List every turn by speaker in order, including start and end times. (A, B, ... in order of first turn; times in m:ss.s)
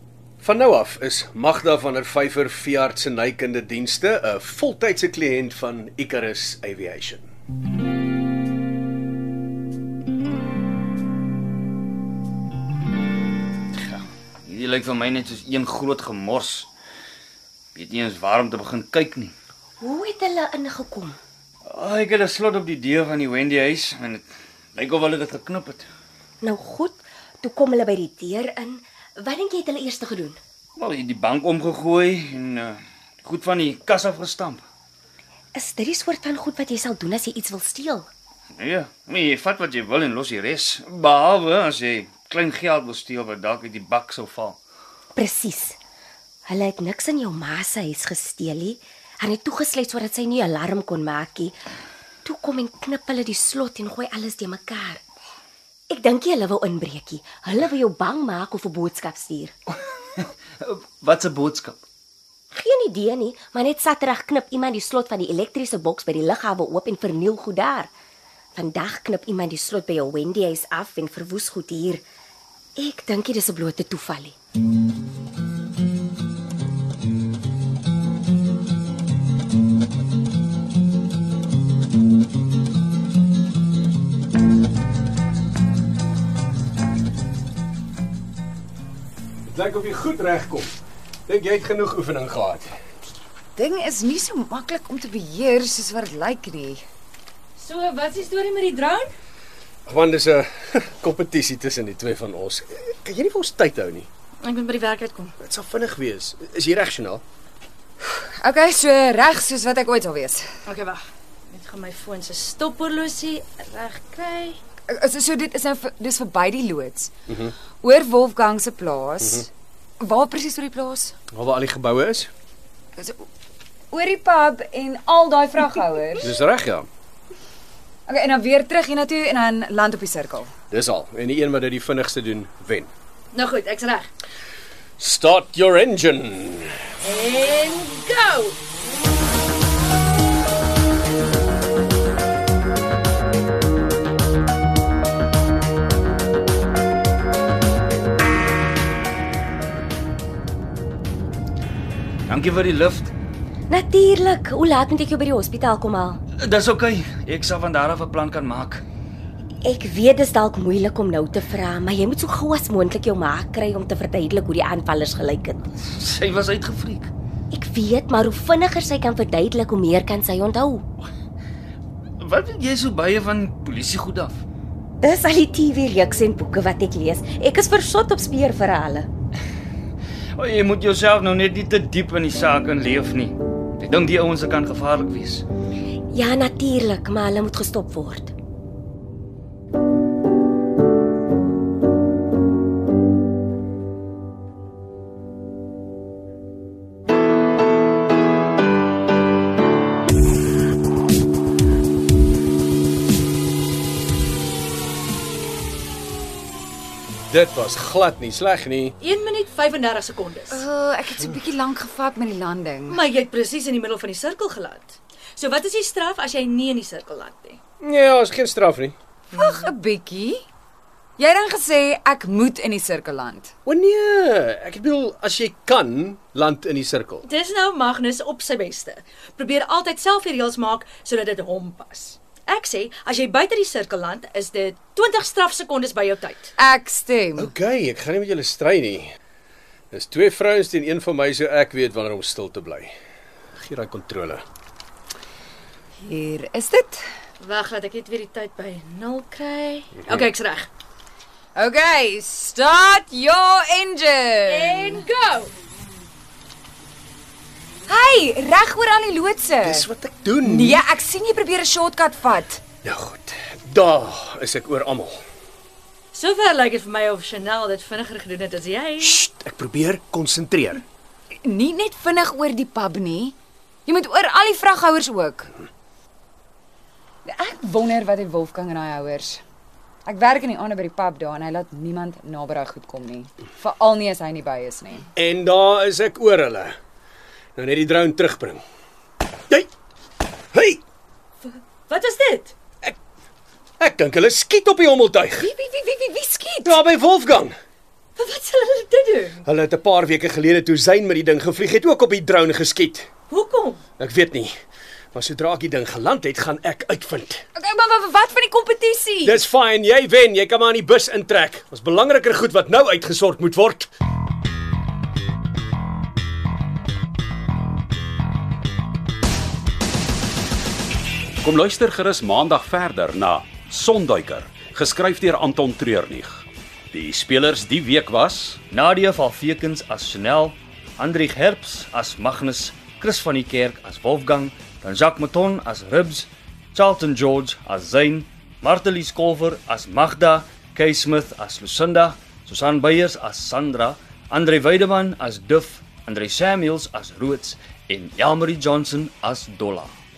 0:00.4-0:07.3 A
0:13.8-0:16.7 B
0:17.8-0:19.3 B
0:19.8-0:21.2 C
0:21.7-0:25.9 B
0:26.4-0:30.4 C
0:30.8-0:34.6 B
0:35.6-0:38.1 C
0:38.6-0:44.6 B
0:45.2-0:45.8 C
0:46.5-0:51.6 C
0:52.2-0:55.0 C
0:55.9-0:59.5 C
1:00.2-1:01.8 B
1:02.5-1:07.9 C
1:08.6-1:12.0 C
1:12.8-1:14.4 C
1:29.5-1:30.7 A
1:31.3-1:32.7 A
1:33.6-1:36.8 D
1:37.6-1:39.1 E
1:39.9-1:44.1 A
1:44.4-1:45.4 E
1:45.4-1:47.2 A
1:48.4-1:50.4 D
1:50.7-1:54.6 E
1:54.9-1:57.1 D
1:57.3-1:57.5 A
1:57.8-1:59.5 D
2:00.0-2:01.2 D
2:01.3-2:02.3 A
2:03.0-2:03.2 D
2:03.9-2:06.3 D
2:06.2-2:06.9 A
2:08.1-2:10.5 D
2:10.7-2:12.9 A
2:13.3-2:14.1 E
2:15.0-2:16.8 A
2:17.0-2:18.6 E
2:32.3-2:33.1 B
2:33.7-2:36.2 C
2:36.4-2:38.8 B
2:39.6-2:45.7 C
2:45.8-2:47.1 B
2:47.5-2:50.8 C
2:52.2-2:54.4 B
2:55.0-2:59.1 C
3:00.4-3:05.4 B
3:06.1-3:08.3 C
3:27.3-3:29.0 A
3:29.0-3:30.6 E
3:30.5-3:33.0 D
3:32.9-3:37.6 E
3:37.8-3:39.0 A
3:39.3-3:39.7 E
3:39.3-3:40.4 D
3:41.2-3:43.5 D
3:43.6-3:47.2 A
3:47.2-3:56.5 E
3:56.6-3:57.5 D
3:57.4-3:59.1 A
3:59.9-4:02.9 A
4:03.6-4:04.4 A
4:06.0-4:07.0 D
4:07.4-4:10.7 E
4:10.0-4:10.3 A
4:11.6-4:15.0 D
4:14.5-4:15.5 E
4:17.9-4:19.9 D
4:19.6-4:20.8 A
4:20.4-4:22.6 D
4:22.8-4:25.2 A
4:26.1-4:29.2 E
4:29.0-4:30.8 A
4:31.4-4:35.5 D
4:37.3-4:39.4 D
4:40.1-4:45.1 D
4:45.2-4:46.7 A
4:47.6-4:48.6 A
4:50.5-4:50.8 A
4:51.4-4:52.5 E
4:53.8-4:55.5 A
4:55.4-4:56.8 D
4:56.6-4:57.5 A
4:58.2-4:59.4 E
4:59.5-5:03.1 A
5:03.3-5:03.8 E
5:04.0-5:04.5 A
5:05.1-5:07.4 A
5:07.6-5:09.4 D
5:09.2-5:13.9 A
5:21.4-5:28.6 F
5:28.7-5:49.9 B